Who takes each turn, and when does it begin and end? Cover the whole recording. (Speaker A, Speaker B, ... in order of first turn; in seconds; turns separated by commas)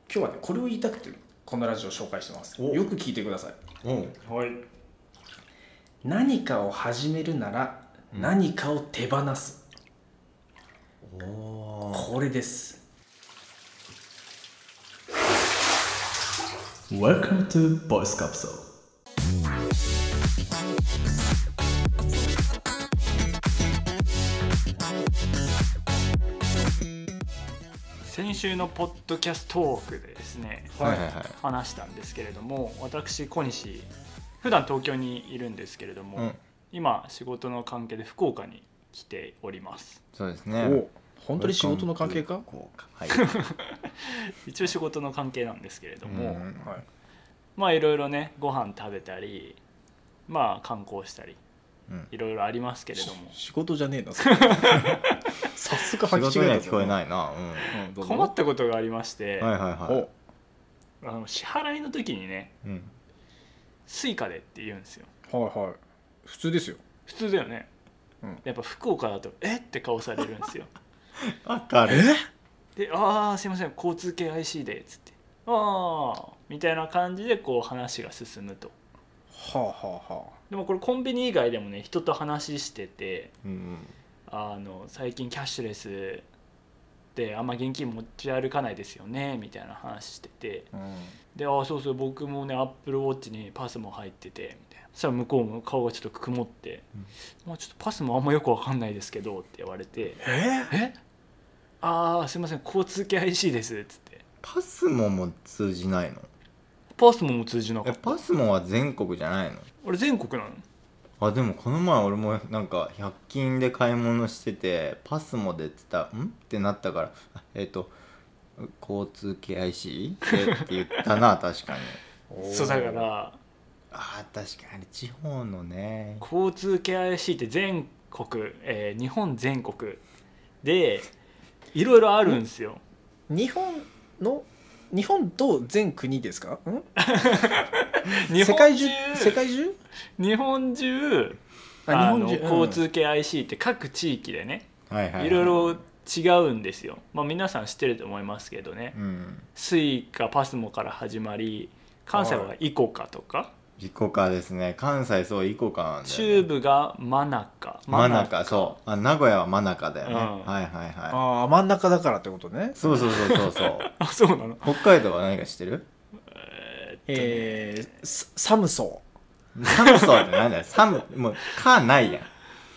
Speaker A: 0.1-3.6, Speaker B: 2.6-2.8, Speaker B: 3.8-4.2, Speaker C: 4.2-4.6, Speaker A: 6.0-9.6, Speaker B: 11.0-12.1, Speaker A: 11.9-12.8, Speaker C: 16.9-18.6, Speaker C: 28.1-33.9, Speaker A: 30.8-31.0, Speaker B: 30.8-31.4, Speaker C: 34.4-40.0, Speaker B: 40.1-40.8, Speaker A: 40.6-42.5, Speaker B: 41.4-43.3, Speaker C: 43.1-46.4, Speaker B: 46.0-46.8, Speaker A: 46.1-46.8, Speaker C: 47.6-49.6, Speaker C: 50.3-51.4, Speaker C: 52.1-53.4, Speaker A: 53.0-55.0, Speaker C: 54.2-55.1, Speaker A: 55.5-57.0, Speaker B: 56.1-57.8, Speaker A: 57.7-58.3, Speaker C: 58.0-59.5, Speaker B: 59.4-60.1, Speaker C: 61.0-62.5, Speaker B: 62.6-62.9, Speaker C: 63.9-65.1, Speaker A: 65.3-66.8, Speaker C: 67.1-67.7, Speaker C: 68.4-70.7, Speaker B: 71.2-72.1, Speaker A: 71.9-72.2, Speaker C: 72.8-78.7, Speaker A: 79.3-80.3, Speaker C: 80.5-83.3, Speaker B: 83.4-83.9, Speaker C: 84.3-86.3, Speaker C: 87.2-90.7, Speaker A: 90.7-91.1, Speaker C: 91.3-96.9, Speaker C: 97.4-101.0, Speaker A: 100.2-100.7, Speaker C: 101.8-104.2, Speaker B: 104.4-106.3, Speaker C: 107.0-108.2, Speaker B: 107.8-109.7, Speaker C: 109.8-110.6, Speaker B: 111.2-117.9, Speaker B: 118.6-122.0, Speaker C: 120.3-121.0, Speaker A: 122.3-123.1, Speaker C: 122.4-123.4, Speaker B: 123.9-126.2, Speaker C: 126.2-130.0, Speaker C: 130.6-131.1, Speaker C: 131.7-132.8, Speaker A: 133.3-136.9, Speaker C: 137.0-139.4, Speaker A: 138.3-139.8, Speaker C: 140.2-149.0, Speaker A: 141.9-142.8, Speaker B: 144.9-145.8, Speaker B: 148.9-149.5, Speaker C: 149.6-153.5, Speaker A: 152.1-152.5, Speaker B: 153.8-156.5, Speaker C: 156.1-158.8, Speaker B: 157.9-161.2, Speaker C: 160.1-160.5, Speaker A: 161.1-163.1, Speaker B: 162.8-163.9, Speaker C: 162.9-164.8, Speaker B: 164.6-165.9, Speaker C: 166.3-167.9, Speaker A: 167.1-169.0, Speaker B: 169.6-172.3, Speaker C: 169.7-170.4